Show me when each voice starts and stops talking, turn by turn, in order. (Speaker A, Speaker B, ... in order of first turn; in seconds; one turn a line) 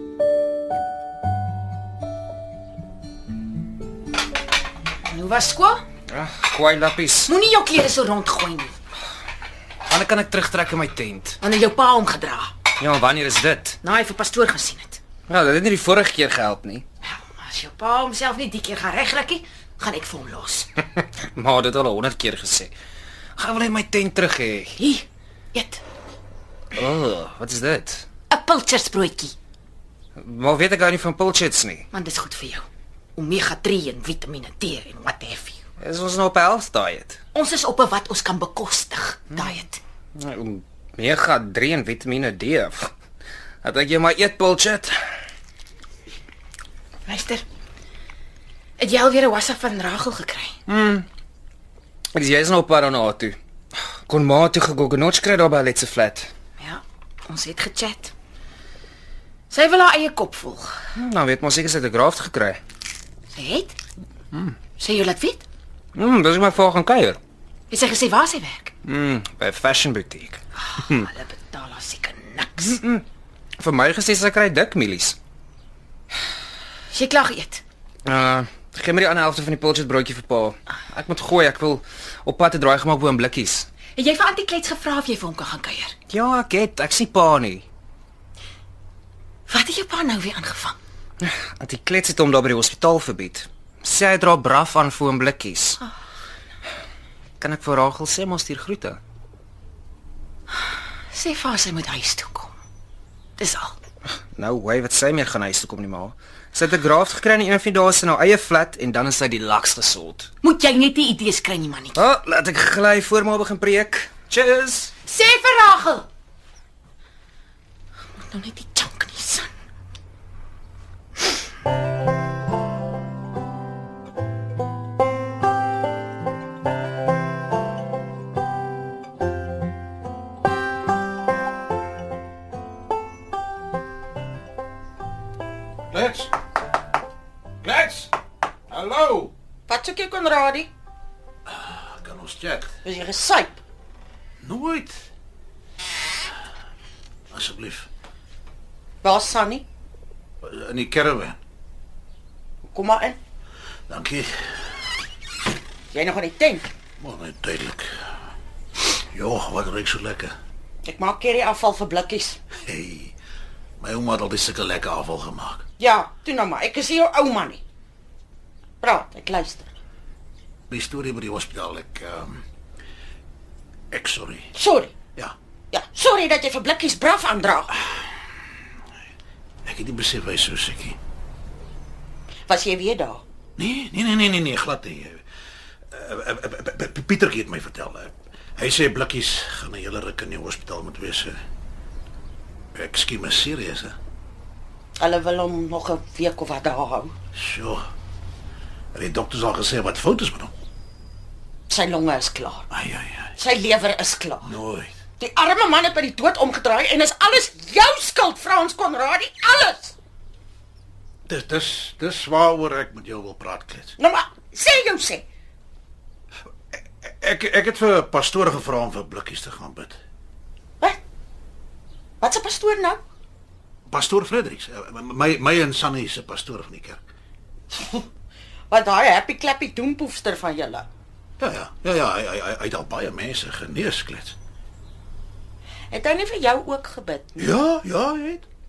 Speaker A: 5.0-5.8
Speaker B: 6.1-7.3
Speaker A: 7.3-8.8
Speaker B: 9.8-11.4
Speaker A: 11.4-12.5
Speaker B: 12.8-13.8
Speaker A: 13.8-15.0
Speaker B: 15.3-16.8
Speaker A: 17.0-20.7
Speaker B: 21.0-22.7
Speaker B: 23.4-24.8
Speaker A: 24.8-25.8
Speaker B: 26.7-28.1
Speaker A: 28.3-29.3
Speaker B: 30.2-31.9
Speaker A: 31.9-35.6
Speaker B: 35.8-37.2
Speaker A: 37.3-39.8
Speaker B: 40.2-42.9
Speaker B: 43.6-45.0
Speaker A: 47.0-47.4
Speaker A: 48.8-50.6
Speaker B: 50.7-51.0
Speaker B: 52.1-56.3
Speaker A: 56.6-58.1
Speaker A: 59.5-60.8
Speaker B: 60.9-62.6
Speaker A: 63.3-63.8
Speaker A: 64.8-65.4
Speaker B: 65.9-67.2
Speaker A: 67.7-68.7
Speaker B: 68.8-70.4
Speaker A: 70.6-72.8
Speaker B: 72.7-73.0
Speaker B: 73.6-75.2
Speaker A: 76.9-77.6
Speaker B: 78.0-83.7
Speaker A: 84.0-85.9
Speaker B: 86.1-87.6
Speaker A: 89.5-90.8
Speaker B: 91.2-95.8
Speaker B: 97.4-99.0
Speaker A: 100.6-102.5
Speaker A: 103.4-103.8
Speaker B: 104.3-110.3
Speaker A: 110.4-112.0
Speaker B: 111.9-114.9
Speaker A: 115.0-116.0
Speaker A: 118.1-119.5
Speaker C: 135.9-136.3
Speaker C: 137.6-138.1
Speaker C: 138.7-139.3
Speaker D: 139.7-140.7
Speaker C: 141.5-142.7
Speaker D: 142.8-143.6
Speaker C: 144.4-145.1
Speaker C: 147.3-147.9
Speaker D: 149.0-149.6
Speaker C: 150.4-151.4
Speaker D: 152.7-153.2
Speaker C: 153.9-154.3
Speaker D: 155.9-156.7
Speaker C: 157.0-157.9
Speaker C: 159.1-160.3
Speaker D: 160.8-162.4
Speaker C: 162.6-163.1
Speaker C: 163.8-165.6
Speaker D: 165.8-167.6
Speaker D: 168.8-169.7
Speaker C: 170.7-172.4
Speaker C: 173.9-174.5
Speaker D: 174.5-174.9
Speaker D: 175.7-177.7
Speaker C: 179.6-181.0
Speaker D: 182.5-183.2
Speaker C: 183.6-185.2
Speaker C: 185.9-191.4
Speaker C: 192.7-194.0
Speaker D: 195.0-197.1
Speaker C: 197.3-197.9
Speaker C: 198.9-200.5
Speaker D: 201.7-202.7
Speaker C: 202.7-203.3
Speaker D: 203.4-204.5
Speaker C: 204.4-204.9
Speaker D: 205.2-209.9
Speaker C: 211.3-214.0
Speaker D: 214.0-215.2
Speaker C: 216.7-219.9
Speaker D: 222.2-223.0
Speaker C: 223.9-227.0
Speaker D: 227.7-228.0
Speaker D: 228.7-230.8
Speaker C: 231.4-234.3
Speaker D: 235.9-237.5
Speaker C: 237.3-238.4